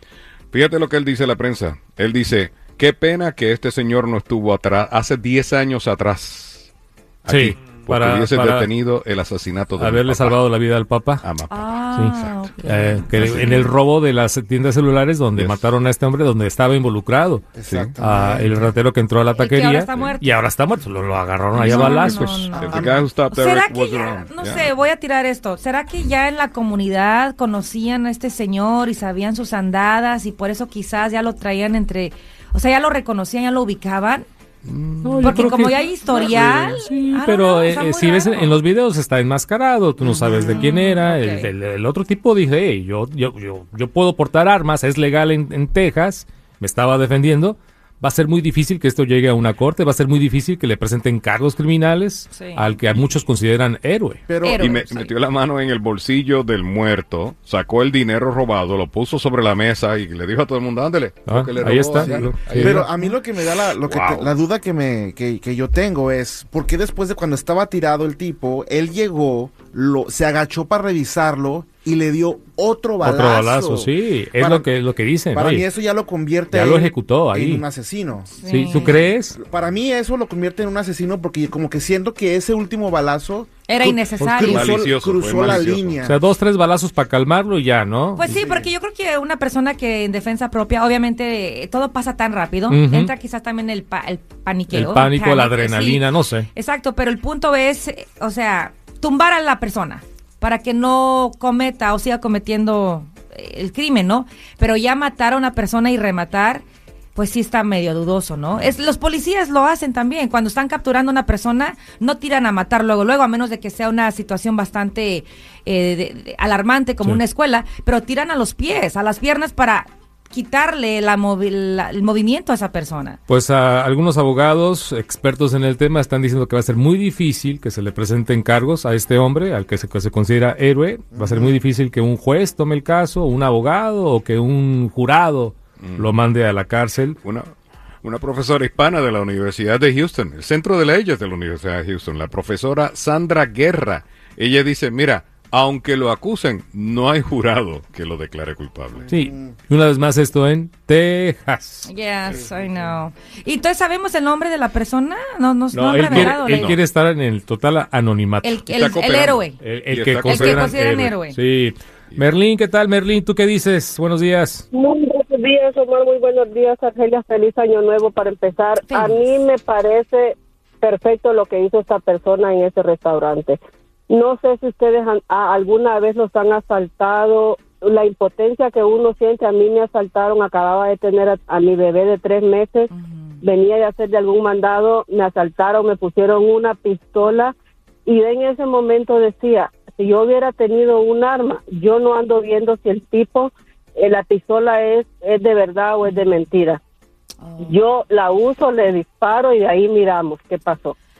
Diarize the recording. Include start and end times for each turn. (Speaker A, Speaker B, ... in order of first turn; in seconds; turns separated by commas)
Speaker A: 0.5-6.7, Speaker A: 7.2-10.4, Speaker B: 7.3-8.7, Speaker B: 9.8-11.2, Speaker A: 11.2-11.6, Speaker C: 11.5-13.7, Speaker B: 11.9-17.5, Speaker A: 13.1-13.6, Speaker A: 15.3-15.7, Speaker D: 17.6-18.7, Speaker A: 17.7-17.9, Speaker B: 18.0-22.5, Speaker C: 19.3-20.3, Speaker C: 21.5-34.2, Speaker A: 21.6-24.7, Speaker D: 22.6-23.0, Speaker A: 34.8-35.2, Speaker B: 35.0-54.2, Speaker C: 35.2-38.6, Speaker C: 40.4-41.5, Speaker C: 52.3-52.6, Speaker D: 54.3-54.7, Speaker C: 54.4-55.1, Speaker A: 54.6-62.8, Speaker B: 61.2-62.9, Speaker D: 61.9-74.7, Speaker A: 63.8-64.3, Speaker B: 73.0-75.7, Speaker D: 75.3-86.2, Speaker B: 76.5-77.6, Speaker C: 78.4-79.0, Speaker B: 78.4-79.4, Speaker C: 83.7-84.7, Speaker A: 84.4-86.0, Speaker B: 85.5-88.3, Speaker C: 88.2-106.6, Speaker D: 88.3-88.7, Speaker B: 92.7-93.1, Speaker B: 94.7-96.5, Speaker C: 107.1-123.2, Speaker B: 123.3-137.2, Speaker D: 131.1-131.6, Speaker A: 135.8-136.1, Speaker A: 137.2-137.5, Speaker A: 138.0-149.1, Speaker D: 149.1-149.5, Speaker B: 149.1-151.9, Speaker C: 151.8-156.7, Speaker D: 152.3-152.8, Speaker B: 155.7-158.7, Speaker A: 155.9-156.8, Speaker C: 158.4-159.6, Speaker A: 158.7-160.9, Speaker B: 159.6-164.6, Speaker C: 160.2-161.4, Speaker E: 164.7-173.6, Speaker C: 168.8-169.4, Speaker E: 174.1-182.9, Speaker C: 182.9-183.4, Speaker E: 183.4-187.5, Speaker E: 188.1-196.8, Speaker C: 197.4-197.8, Speaker E: 197.6-200.9